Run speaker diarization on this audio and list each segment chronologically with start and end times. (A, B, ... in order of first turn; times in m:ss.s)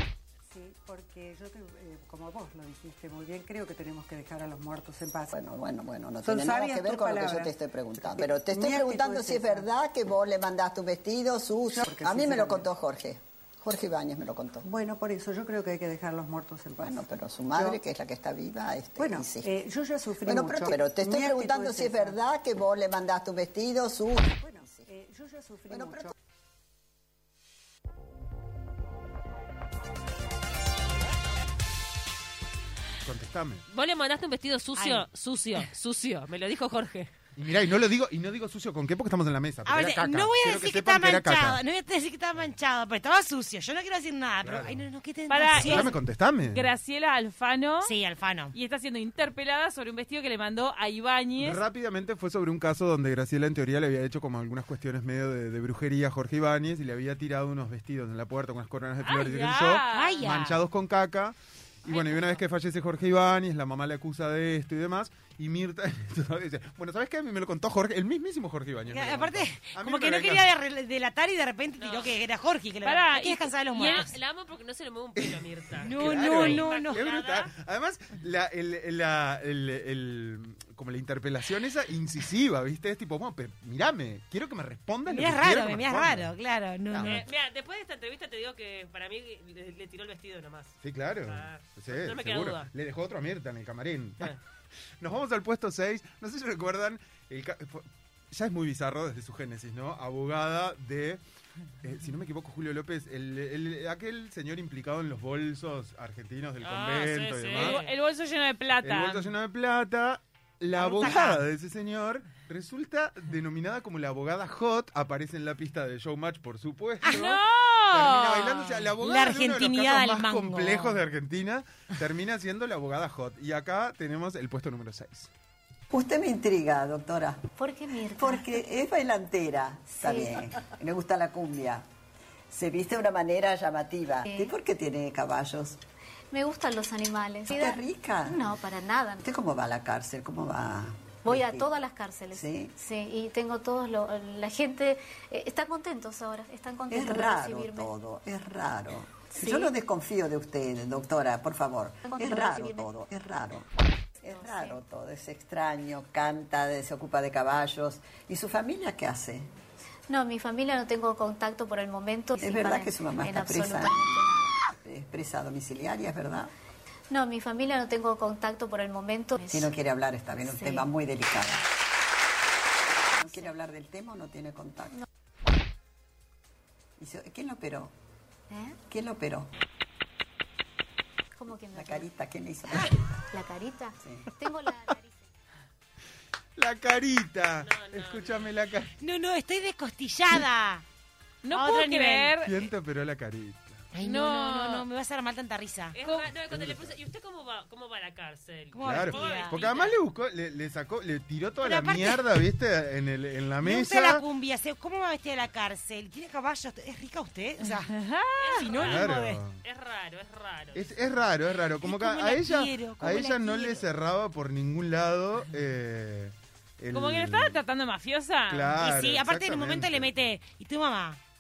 0:00.5-0:05.3 A
0:05.3-0:14.7 B
0:06.2-0:09.6 A
0:11.7-0:12.7 A
0:14.6-0:17.8 A
0:16.8-0:19.5 B
0:19.0-0:22.2 A
0:20.2-0:24.9 B
0:24.4-0:26.1 A
0:25.7-0:26.1 B
0:33.0-0:33.6 C
0:33.7-0:37.1 D
0:34.7-0:35.7 E
0:37.4-0:41.6 C
0:39.6-0:45.9 E
0:44.4-0:44.8 C
0:45.3-0:47.9 F
0:45.5-0:46.7 C
0:47.8-0:48.5 E
0:48.5-0:51.6 F
0:51.4-1:10.5 C
0:59.0-1:00.2 F
0:59.9-1:00.6 E
1:01.9-1:02.3 D
1:08.8-1:14.1 E
1:11.8-1:12.2 D
1:12.8-1:14.1 F
1:13.8-1:17.5 D
1:15.2-1:26.3 C
1:15.8-1:17.1 E
1:25.1-1:27.2 E
1:26.9-1:27.2 C
1:27.0-1:32.7 D
1:30.8-1:34.4 C
1:35.0-1:41.2 C
1:41.8-1:47.8 C
1:46.6-1:47.9 D
1:47.5-1:49.3 F
1:48.8-2:05.3 C
1:50.7-1:51.5 E
1:57.0-1:57.4 E
1:57.1-1:58.5 F
1:58.5-2:01.0 E
2:05.9-2:07.5 B
2:07.6-2:08.4 G
2:08.1-2:11.8 B
2:10.0-2:10.4 G
2:12.5-2:15.8 B
2:14.3-2:14.5 G
2:16.3-2:19.2 G
2:17.5-2:18.5 B
2:19.2-2:21.7 B
2:21.2-2:27.9 G
2:22.3-2:22.7 B
2:26.9-2:33.7 B
2:29.4-2:29.7 G
2:32.0-2:32.9 G
2:34.2-2:39.5 B
2:34.3-2:34.8 G
2:40.1-2:44.6 G
2:42.4-2:46.5 B
2:47.1-2:49.7 G
2:49.5-2:51.6 B
2:50.4-2:50.9 G
2:53.2-2:55.0 B
2:53.2-2:53.5 G
2:57.0-2:57.9 B
2:58.5-2:58.8 G
2:58.9-2:59.5 B
3:01.4-3:02.1 G
3:01.7-3:03.0 B
3:02.8-3:05.2 G
3:06.6-3:08.9 C
3:07.6-3:08.5 D
3:09.0-3:10.8 E
3:11.4-3:12.5 F
3:11.5-3:12.4 E
3:12.4-3:13.8 C
3:13.9-3:16.0 E
3:14.0-3:14.8 F
3:15.9-3:20.0 D
3:16.0-3:16.3 F
3:16.4-3:16.9 C
3:18.7-3:19.6 E
3:18.8-3:24.2 C
3:21.6-3:22.4 E
3:23.6-3:27.9 E
3:27.8-3:28.6 F
3:28.4-3:30.9 D
3:28.5-3:29.4 E
3:28.8-3:29.6 C
3:30.7-3:37.6 C
3:31.8-3:33.9 E
3:36.9-3:38.7 F
3:38.5-3:40.1 C
3:38.7-3:41.2 E